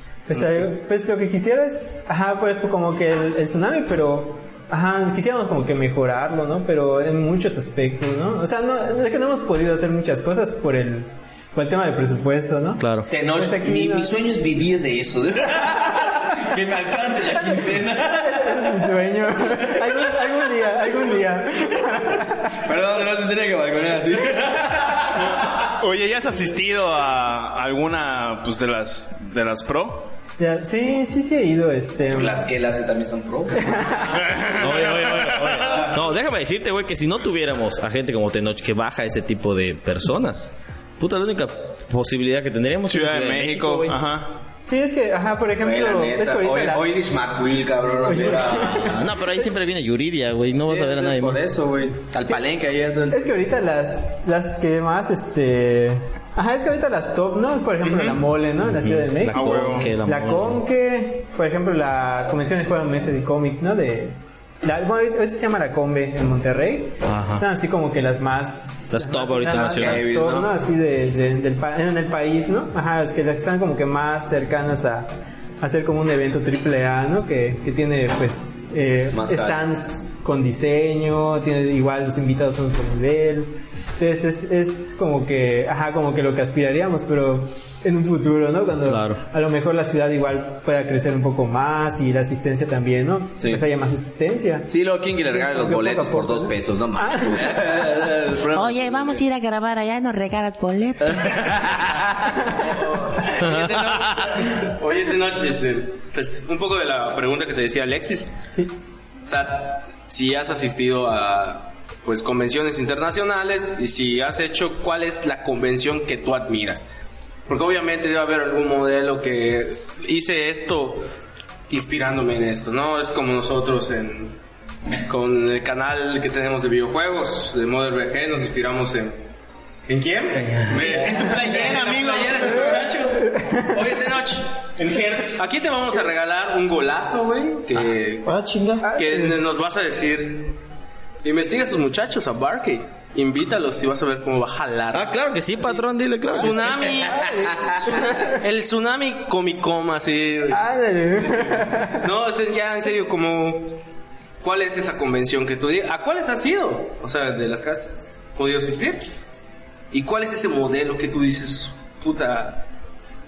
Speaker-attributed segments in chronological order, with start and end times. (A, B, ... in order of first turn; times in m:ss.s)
0:00.3-0:14.2 A
0:00.3-0:00.7 B
0:12.8-0:13.1 C
0:13.1-0:18.8 D
0:17.6-0:22.5 A
0:19.5-0:20.0 D
0:22.6-0:25.4 D
0:25.8-0:30.1 E
0:30.4-0:32.4 A
0:32.1-0:34.2 D
0:33.6-0:34.2 A
0:34.1-0:35.9 E
0:34.6-0:44.0 C
0:35.4-0:36.0 D
0:42.9-0:44.3 E
0:44.7-0:46.9 A
0:45.6-0:49.0 D
0:48.0-0:49.4 A
0:48.8-0:51.4 C
0:50.6-0:53.4 D
0:53.1-1:15.1 A
0:57.9-0:58.2 E
0:58.7-1:00.6 C
0:59.3-0:59.9 E
1:07.0-1:07.4 C
1:08.9-1:10.1 C
1:09.5-1:10.5 D
1:15.6-1:34.7 A
1:19.1-1:19.6 D
1:28.8-1:29.2 C
1:34.7-1:39.2 D
1:35.3-1:37.7 A
1:38.5-1:41.6 F
1:41.2-1:43.3 D
1:43.2-1:48.3 B
1:43.4-1:44.4 C
1:49.3-1:56.9 B
1:57.5-2:01.1 B
2:01.7-2:04.4 B
2:05.1-2:09.2 B
2:09.9-2:14.5 B
2:10.7-2:13.0 E
2:13.2-2:13.8 A
2:14.8-2:15.4 E
2:15.4-2:20.6 B
2:18.5-2:18.8 C
2:18.8-2:19.4 A
2:21.2-2:33.8 B
2:24.9-2:27.1 C
2:27.2-2:28.4 A
2:27.5-2:27.8 D
2:30.5-2:32.0 A
2:34.4-2:39.0 B
2:39.9-2:42.6 B